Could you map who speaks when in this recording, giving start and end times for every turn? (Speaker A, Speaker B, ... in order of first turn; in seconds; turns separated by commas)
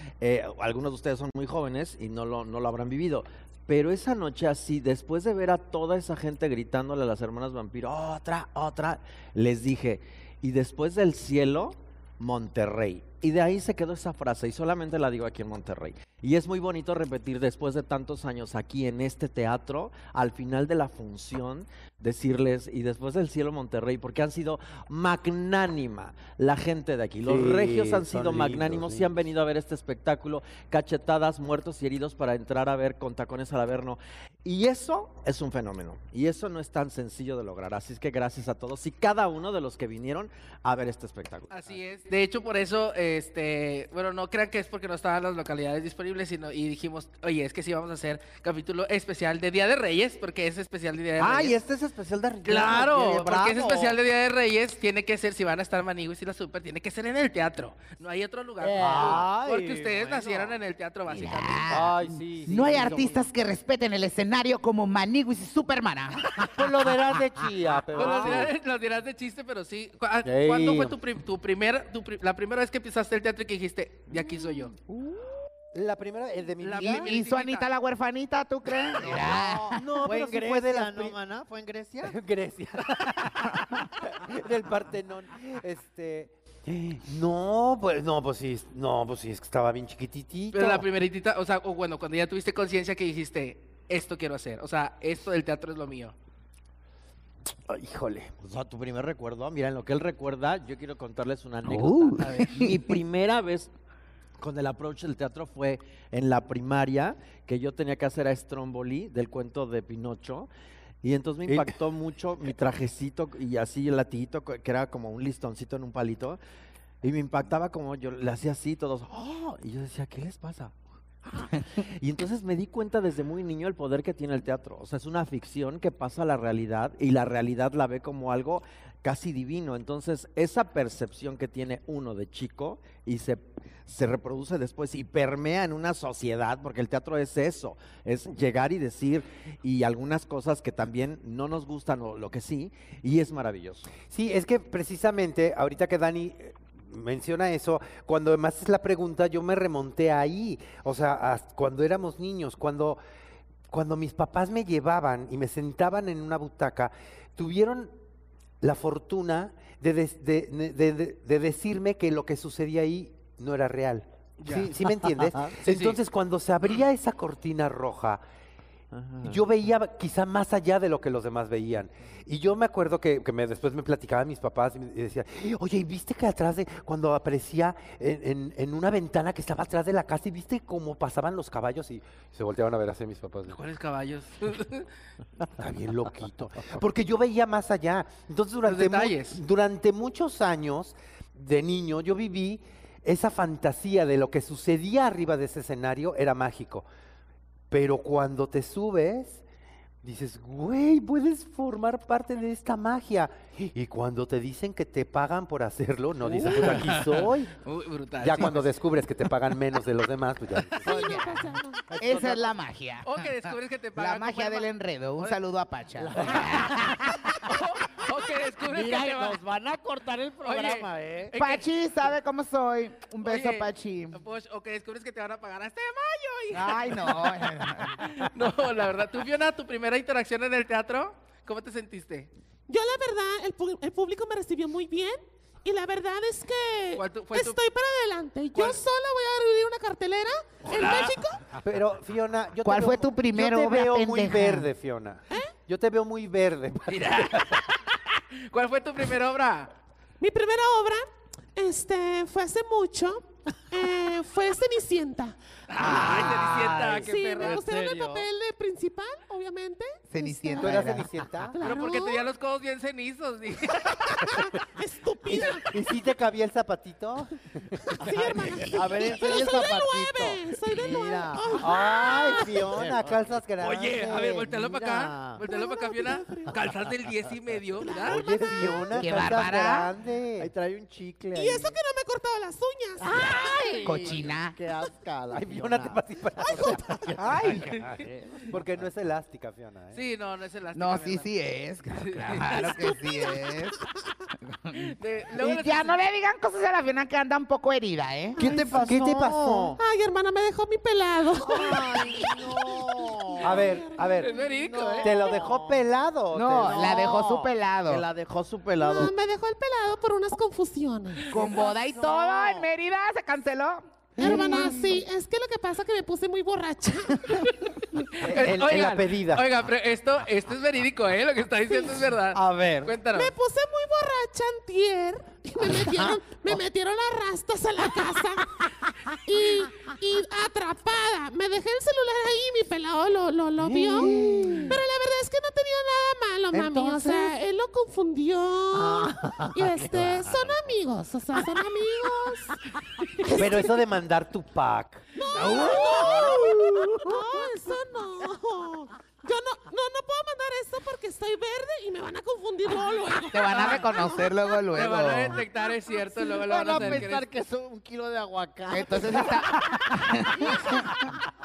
Speaker A: 0.2-41.8, Speaker B: 27.2-29.2, Speaker C: 41.5-51.6, Speaker A: 51.2-54.0, Speaker B: 51.5-52.0, Speaker C: 52.5-61.8, Speaker A: 58.6-60.5, Speaker B: 58.8-60.5, Speaker D: 61.1-67.0, Speaker A: 61.7-63.3, Speaker B: 61.7-63.0, Speaker A: 66.6-68.5, Speaker B: 66.6-68.5, Speaker C: 67.9-74.7, Speaker A: 70.3-70.9, Speaker B: 75.7-77.2, Speaker C: 76.6-77.7, Speaker D: 76.8-79.9, Speaker A: 79.0-82.2, Speaker B: 79.0-81.2, Speaker B: 82.0-90.8, Speaker C: 90.5-96.2, Speaker B: 97.7-98.3, Speaker A: 98.2-103.7, Speaker D: 101.7-103.0, Speaker A: 104.4-110.5, Speaker A: 111.0-116.4, Speaker B: 111.5-111.7, Speaker A: 117.0-143.9, Speaker B: 144.1-153.0, Speaker B: 153.7-157.9, Speaker B: 158.6-168.2, Speaker C: 164.4-164.9, Speaker C: 165.6-166.0, Speaker A: 168.9-169.4, Speaker B: 169.2-183.6, Speaker C: 183.5-184.9, Speaker B: 185.5-196.9, Speaker C: 188.6-189.4, Speaker B: 197.7-199.4, Speaker B: 200.0-207.5, Speaker C: 206.3-208.7, Speaker B: 208.2-211.3, Speaker E: 210.8-212.0, Speaker D: 210.9-211.5, Speaker A: 211.9-212.5, Speaker D: 212.0-217.4, Speaker C: 213.0-215.4, Speaker A: 216.0-217.1, Speaker C: 217.3-219.4, Speaker A: 218.6-221.4, Speaker C: 220.4-221.7, Speaker D: 221.4-224.2, Speaker C: 223.2-232.3, Speaker D: 226.5-228.1, Speaker E: 232.7-241.5, Speaker C: 237.0-237.6, Speaker C: 240.7-241.2, Speaker B: 241.6-247.6, Speaker D: 242.6-244.7, Speaker C: 246.9-249.7, Speaker E: 250.2-256.3, Speaker C: 255.7-257.6, Speaker A: 255.8-258.3, Speaker B: 256.0-256.7, Speaker E: 257.0-262.3, Speaker D: 260.1-261.3, Speaker B: 260.6-261.6, Speaker C: 261.6-264.4, Speaker E: 264.1-265.7, Speaker B: 265.3-268.8, Speaker E: 267.9-272.9, Speaker A: 268.7-273.4, Speaker B: 271.6-274.6, Speaker C: 273.6-278.1, Speaker A: 274.4-275.4, Speaker E: 275.4-276.6, Speaker E: 277.8-278.7, Speaker B: 278.0-280.5, Speaker A: 278.4-279.1, Speaker D: 278.9-279.9, Speaker A: 280.4-281.8, Speaker E: 281.3-283.8, Speaker A: 283.0-288.6, Speaker D: 283.1-284.6, Speaker B: 285.3-290.0, Speaker E: 286.4-286.9, Speaker D: 287.2-287.7, Speaker C: 289.9-291.3, Speaker D: 290.8-293.8, Speaker C: 291.9-292.8, Speaker E: 292.5-293.8, Speaker D: 294.5-298.4, Speaker C: 294.8-296.0, Speaker A: 298.4-299.8, Speaker B: 298.4-299.8, Speaker E: 299.8-304.7, Speaker A: 301.4-303.8, Speaker B: 303.4-304.3, Speaker C: 304.2-305.2, Speaker A: 304.4-305.9, Speaker B: 305.0-307.1, Speaker D: 306.3-308.1, Speaker A: 306.5-309.1, Speaker E: 308.8-311.6, Speaker D: 311.3-314.1, Speaker A: 311.3-312.7, Speaker E: 314.2-318.2, Speaker B: 314.2-314.8, Speaker A: 314.2-315.0, Speaker C: 318.1-323.3, Speaker B: 318.2-319.5, Speaker E: 321.7-322.1, Speaker A: 322.3-323.0, Speaker E: 323.1-328.6, Speaker E: 329.2-342.6, Speaker B: 333.6-334.8, Speaker A: 333.8-334.8, Speaker A: 336.5-337.3, Speaker B: 336.8-337.1, Speaker A: 338.8-340.6, Speaker E: 343.2-343.8, Speaker B: 343.3-347.0, Speaker E: 345.2-354.4, Speaker A: 345.4-347.0, Speaker D: 345.5-346.2, Speaker D: 353.3-355.4, Speaker C: 354.7-357.3, Speaker E: 355.4-357.0, Speaker A: 356.4-360.5, Speaker D: 358.7-361.2